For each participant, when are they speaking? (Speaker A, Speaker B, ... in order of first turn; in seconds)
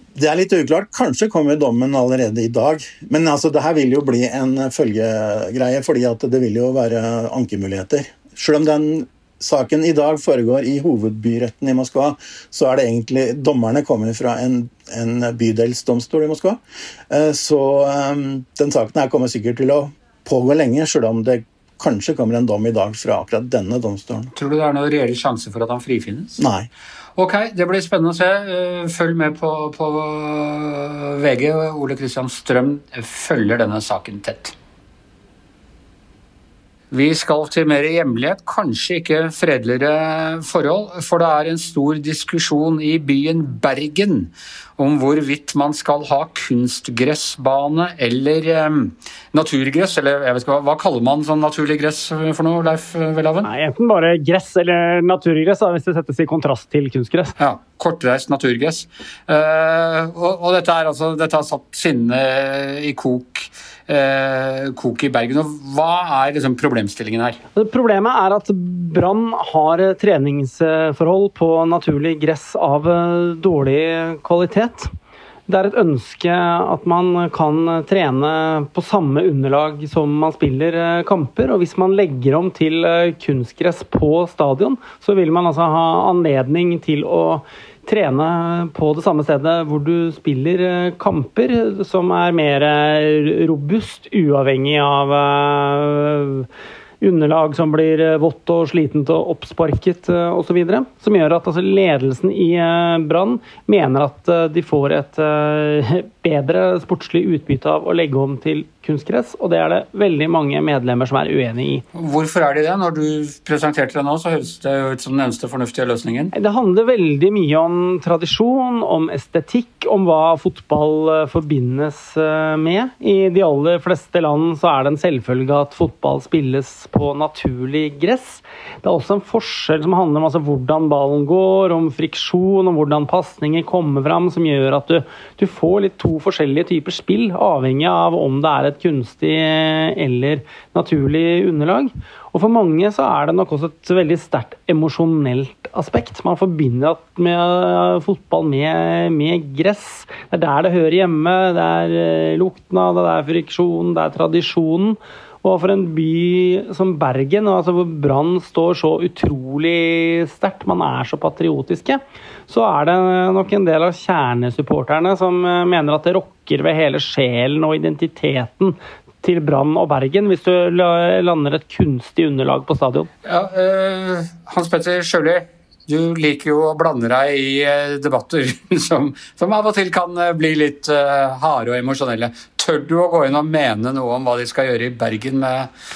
Speaker A: 0.2-24.3, 26.4-26.7
Speaker B: 24.4-26.4, 27.2-34.5, 36.9-53.5, 57.4-67.4, 111.9-116.3, 173.2-185.7
Speaker C: 53.5-57.3, 67.5-74.9, 75.5-96.5, 97.0-111.8, 116.3-173.1